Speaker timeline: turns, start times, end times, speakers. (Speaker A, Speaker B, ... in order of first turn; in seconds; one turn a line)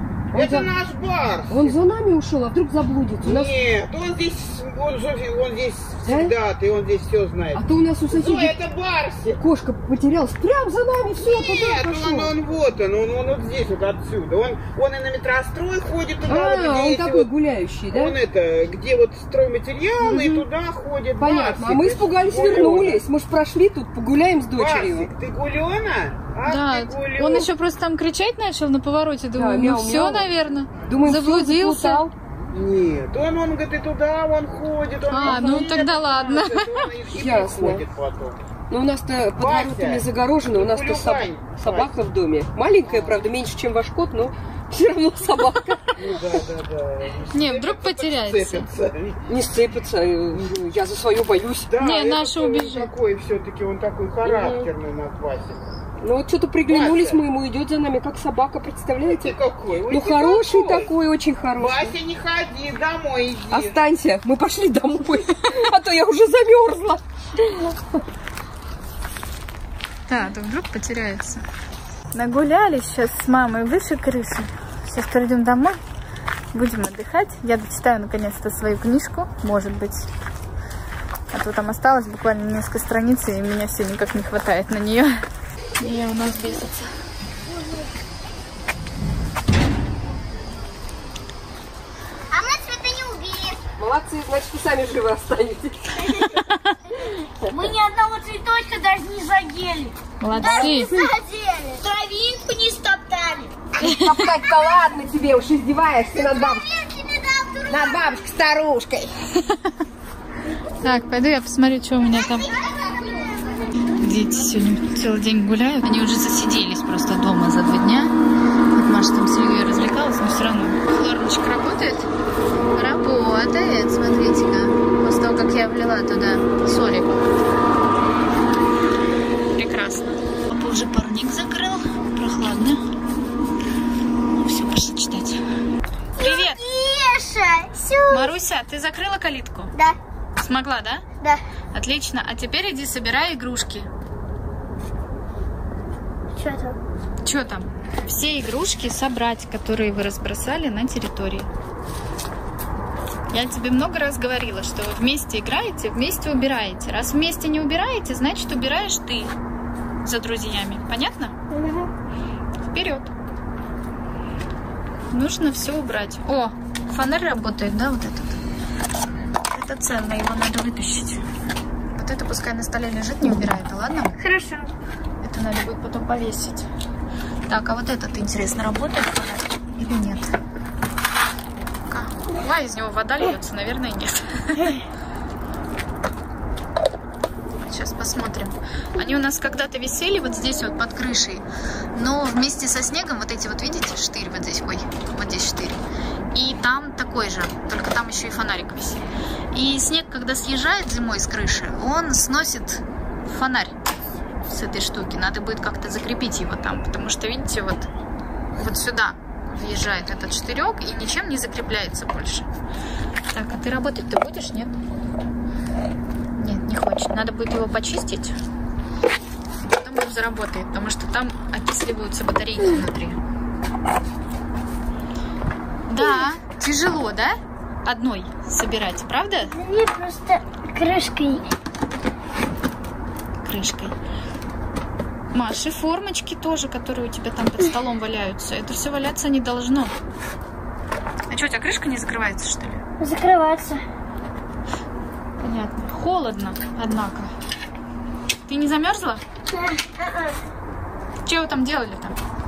Speaker A: 0.3-0.8
Speaker B: 0.3-1.8
Speaker A: 1.5-3.6
Speaker B: 3.2-9.4
Speaker A: 6.0-6.3
Speaker A: 7.5-8.5
Speaker A: 9.3-12.4
Speaker B: 11.2-17.3
Speaker A: 16.2-18.1
Speaker B: 17.9-23.0
Speaker A: 20.0-20.4
Speaker A: 21.2-25.1
Speaker B: 24.5-27.5
Speaker C: 26.4-32.0
Speaker A: 29.3-30.3
Speaker A: 30.8-32.1
Speaker B: 32.5-38.4
Speaker C: 35.1-36.9
Speaker A: 37.1-37.8
Speaker A: 38.7-46.1
Speaker B: 39.4-41.9
Speaker B: 42.9-43.2
Speaker B: 46.0-49.2
Speaker C: 47.3-48.7
Speaker A: 49.3-51.7
Speaker B: 51.7-55.6
Speaker C: 51.8-52.9
Speaker A: 54.2-54.7
Speaker A: 56.0-59.4
Speaker B: 56.7-57.2
Speaker B: 59.1-60.9
Speaker A: 59.9-62.0
Speaker B: 61.6-63.8
Speaker A: 63.5-68.0
Speaker C: 70.1-71.4
Speaker C: 72.1-75.8
Speaker C: 76.5-80.1
Speaker C: 81.3-85.2
Speaker C: 85.8-86.9
Speaker D: 87.5-87.9
Speaker D: 92.3-93.6
Speaker A: 93.8-95.9
Speaker D: 96.0-96.3
Speaker C: 96.3-96.7
Speaker D: 97.5-103.7
Speaker C: 100.2-100.9
Speaker A: 100.3-100.9
Speaker C: 103.8-104.2
Speaker A: 103.8-106.7
Speaker D: 106.1-108.2
Speaker A: 107.7-109.1
Speaker C: 109.4-109.7
Speaker C: 110.8-112.5
Speaker D: 112.3-113.9
Speaker C: 113.9-118.1
Speaker C: 118.7-122.1
Speaker C: 122.7-127.2
Speaker C: 129.6-132.8
Speaker C: 134.3-135.4
Speaker D: 136.2-138.3
Speaker C: 136.2-136.6
Speaker C: 138.1-139.7
Speaker C: 140.4-141.0
Speaker C: 141.7-143.9
Speaker D: 146.3-146.8
Speaker C: 147.2-151.5
Speaker C: 153.3-159.3
Speaker C: 160.0-161.3
Speaker D: 161.5-161.9
Speaker C: 162.7-163.1
Speaker C: 165.1-168.4
Speaker C: 169.5-171.2
Speaker C: 171.9-174.2
Speaker D: 174.2-174.7
Speaker C: 175.2-176.7
Speaker C: 177.5-180.3
Speaker C: 181.9-184.8
Speaker C: 187.7-195.8
Speaker C: 196.3-203.7
Speaker C: 204.5-207.9
Speaker C: 208.6-212.5
Speaker C: 213.3-214.7
Speaker C: 216.4-218.4
Speaker C: 219.6-223.2
Speaker C: 225.9-229.5
Speaker D: 226.0-226.3
Speaker D: 229.4-231.5
Speaker C: 233.4-233.9
Speaker C: 235.3-239.9
Speaker C: 241.3-242.8
Speaker D: 243.0-243.8
Speaker C: 245.4-247.3
Speaker C: 248.5-249.2
Speaker D: 249.5-250.4
Speaker C: 251.2-252.2